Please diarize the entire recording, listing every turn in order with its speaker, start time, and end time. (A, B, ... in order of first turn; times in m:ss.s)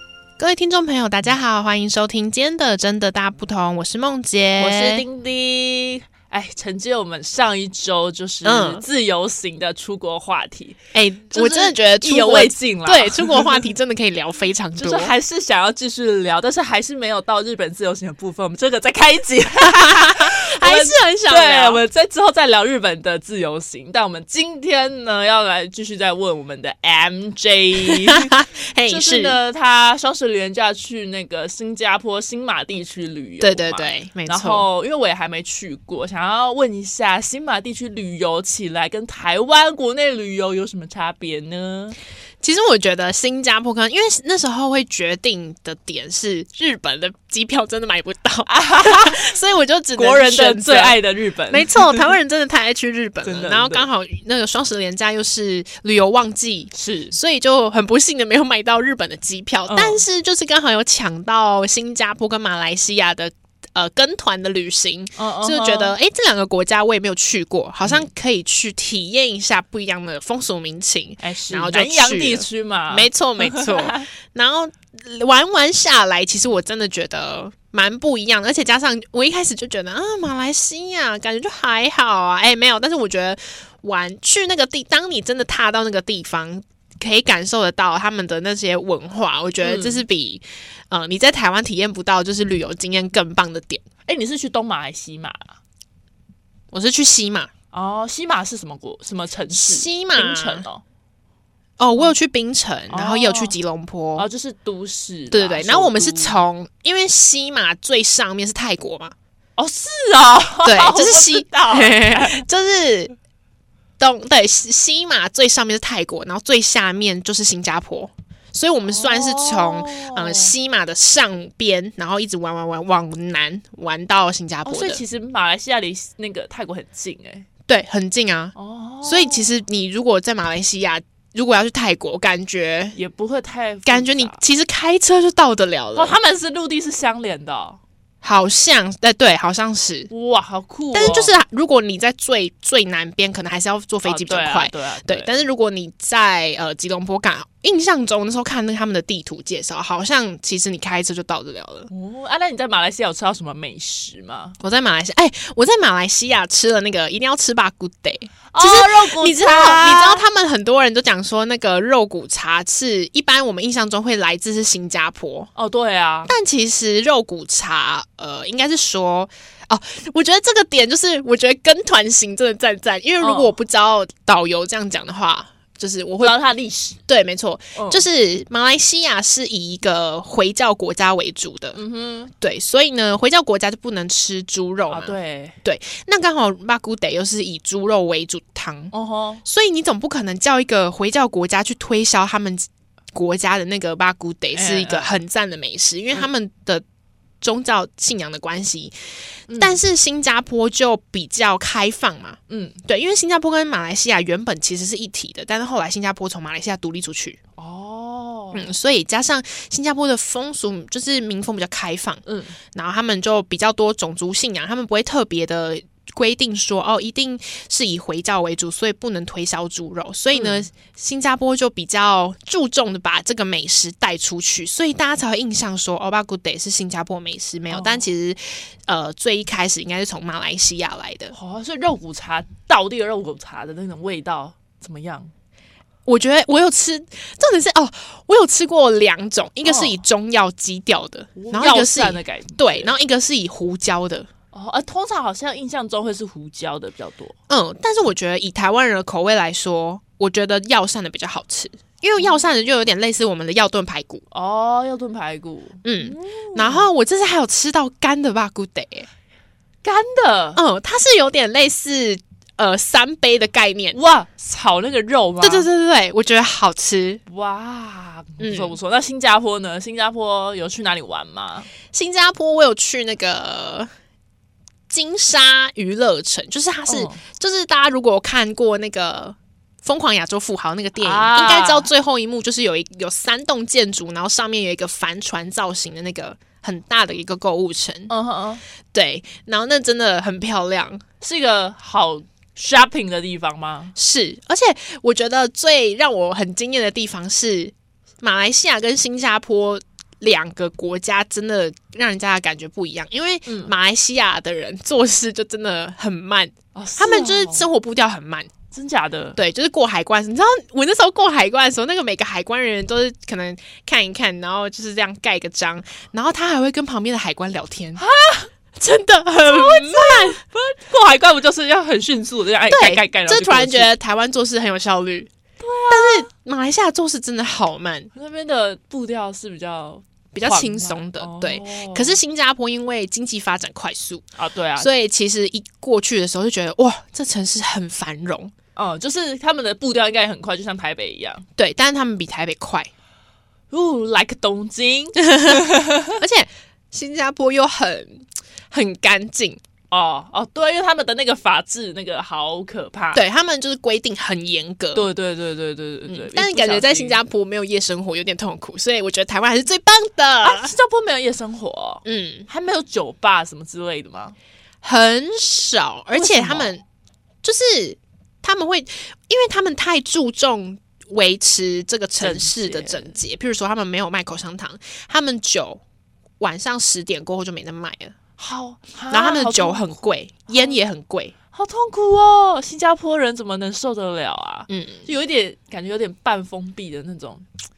0:00.4-0:05.0 A
0:04.6-0:10.8 B
0:08.4-0:08.8 A
0:10.9-0:15.1 A
0:11.3-0:13.7 B
0:14.8-0:42.0 B
0:19.7-0:21.8 A
0:27.8-0:29.4 A
0:33.4-0:34.6 A
0:42.4-0:51.0 A
0:48.5-0:49.3 B
0:50.0-0:52.0 B
0:51.5-1:33.8 A
0:53.2-0:53.9 B
0:56.7-0:57.1 B
0:59.7-1:00.0 B
1:05.2-1:05.9 B
1:11.2-1:14.0 B
1:29.6-1:30.0 B
1:34.0-1:35.5 B
1:36.7-1:37.5 A
1:37.7-1:40.8 B
1:39.5-1:40.6 A
1:41.8-1:44.3 A
1:42.9-1:43.6 B
1:44.2-1:46.4 B
1:45.3-1:49.1 A
1:49.6-1:52.4 B
1:50.6-1:53.1 A
1:54.0-2:05.0 A
1:58.9-2:00.5 B
2:04.6-2:07.4 B
2:07.7-2:13.0 A
2:08.5-2:09.6 B
2:12.9-2:14.4 B
2:13.8-2:16.2 A
2:15.9-2:17.8 B
2:18.2-2:20.1 A
2:20.1-2:21.3 B
2:20.9-2:31.9 A
2:24.0-2:25.3 B
2:31.9-2:34.6 B
2:34.6-2:45.5 A
2:38.5-2:40.2 B
2:45.5-2:46.3 B
2:46.2-2:56.4 A
2:53.2-2:53.6 B
2:56.2-2:57.0 B
2:57.0-3:01.8 A
2:57.8-2:58.0 B
3:01.8-3:02.3 B
3:02.4-3:08.9 A
3:04.9-3:05.5 B
3:08.9-3:09.4 B
3:09.4-3:16.8 A
3:14.5-3:15.1 B
3:17.4-3:18.9 A
3:19.5-3:27.4 A
3:19.5-3:19.8 B
3:22.5-3:22.8 B
3:27.6-3:28.7 B
3:28.5-3:51.3 A
3:32.2-3:32.6 B
3:40.3-3:40.7 B
3:47.7-3:48.1 B
3:51.3-3:55.3 B
3:56.0-4:04.3 A
3:59.6-4:00.0 B
4:01.4-4:02.9 B
4:04.5-4:07.3 B
4:07.5-4:14.2 A
4:14.3-4:16.9 B
4:15.8-4:19.1 A
4:19.8-4:20.6 B
4:20.5-4:24.0 A
4:23.9-4:25.7 B
4:25.4-4:27.2 A
4:27.3-4:31.7 B
4:28.4-4:28.8 A
4:31.9-4:33.9 A
4:34.9-4:48.1 A
4:36.9-4:37.2 B
4:41.0-4:41.9 B
4:48.1-4:48.6 B
4:48.9-4:51.0 A
4:51.2-4:53.9 B
4:53.9-5:08.5 A
5:03.4-5:03.7 B
5:06.7-5:07.7 B
5:08.7-5:09.4 B
5:09.4-5:18.0 A
5:18.0-5:18.5 B
5:18.8-5:20.4 A
5:19.4-5:23.9 B
5:22.7-5:25.3 A
5:25.6-5:26.3 B
5:25.9-5:28.1 A
5:28.1-5:32.2 B
5:30.3-5:34.2 A
5:34.3-5:34.9 B
5:34.8-5:38.5 A
5:38.8-5:41.4 B
5:41.6-5:42.9 A
5:43.7-5:46.1 B
5:45.2-5:49.6 A
5:49.9-5:53.2 B
5:53.1-5:55.1 A
5:54.9-5:57.2 B
5:56.1-6:00.7 A
6:00.4-6:04.4 B
6:02.0-6:02.5 A
6:04.8-6:06.8 A
6:06.1-6:06.7 B
6:07.4-6:15.8 A
6:12.2-6:13.1 B
6:16.4-6:18.1 A
6:18.4-6:20.8 B
6:19.1-6:21.3 A
6:21.5-6:27.4 B
6:24.7-6:25.1 A